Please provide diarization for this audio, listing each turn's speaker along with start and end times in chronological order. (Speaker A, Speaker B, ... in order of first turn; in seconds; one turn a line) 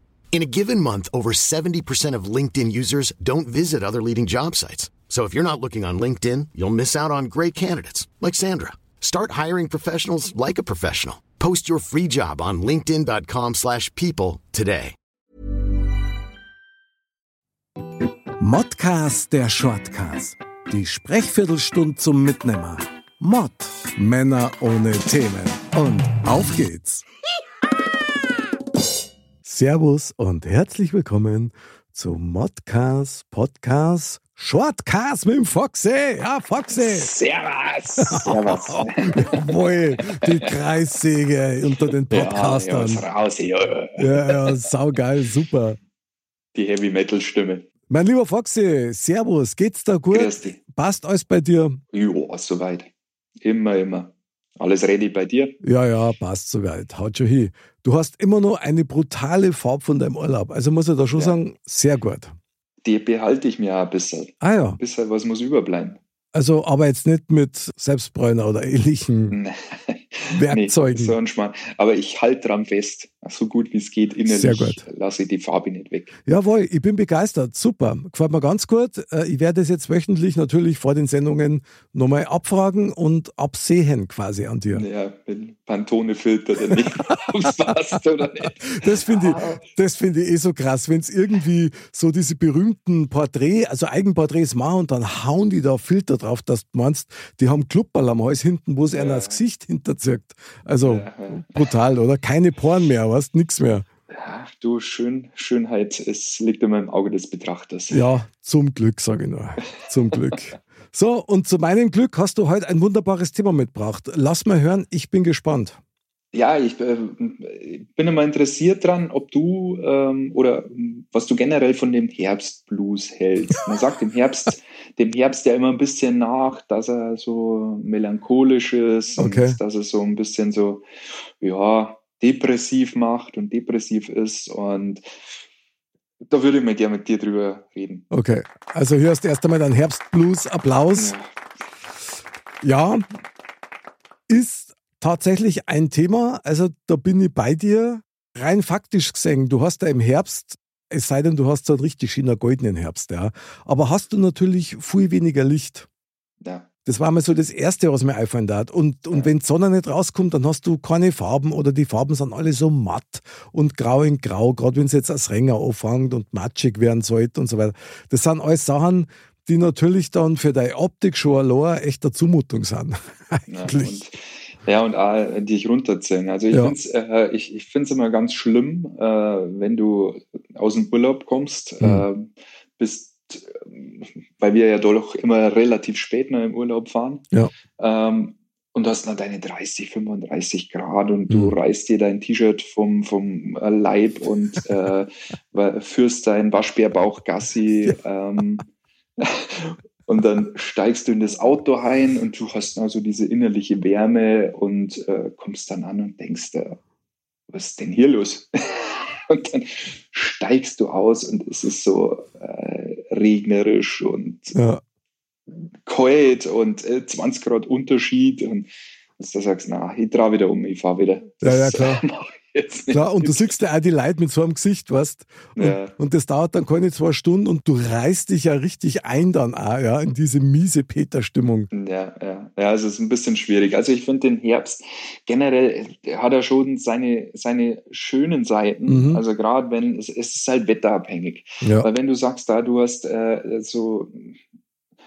Speaker A: 0.3-14.9
Speaker B: 18.4-27.1
Speaker B: 29.4-37.1
Speaker C: 36.7-39.3
Speaker B: 38.1-43.1
Speaker C: 40.0-40.5
Speaker C: 42.1-44.7
Speaker B: 44.0-45.8
Speaker C: 46.5-47.7
Speaker B: 47.9-51.8
Speaker C: 50.1-50.6
Speaker C: 51.9-52.9
Speaker C: 53.4-55.6
Speaker B: 55.6-62.3
Speaker C: 61.1-61.4
Speaker C: 62.8-66.0
Speaker B: 64.4-64.8
Speaker B: 66.3-69.4
Speaker C: 69.3-76.1
Speaker B: 70.3-71.2
Speaker B: 74.3-74.8
Speaker B: 76.3-84.9
Speaker C: 84.7-89.6
Speaker B: 88.6-103.9
Speaker C: 98.9-99.4
Speaker C: 100.8-101.7
Speaker C: 104.1-108.0
Speaker B: 107.9-115.8
Speaker C: 116.3-130.9
Speaker B: 129.2-129.6
Speaker C: 131.4-135.0
Speaker C: 136.3-138.1
Speaker B: 138.1-141.1
Speaker C: 140.9-141.2
Speaker B: 142.6-143.1
Speaker B: 144.3-155.9
Speaker C: 156.4-156.7
Speaker B: 156.8-174.0
Speaker C: 173.5-198.7
Speaker B: 176.5-176.8
Speaker B: 181.8-182.1
Speaker B: 191.3-191.6
Speaker C: 199.2-206.8
Speaker C: 207.5-214.6
Speaker B: 214.5-214.8
Speaker C: 215.5-223.6
Speaker B: 221.4-222.0
Speaker B: 222.9-231.7
Speaker C: 225.6-225.9
Speaker C: 231.7-244.4
Speaker B: 238.9-239.2
Speaker B: 241.6-241.9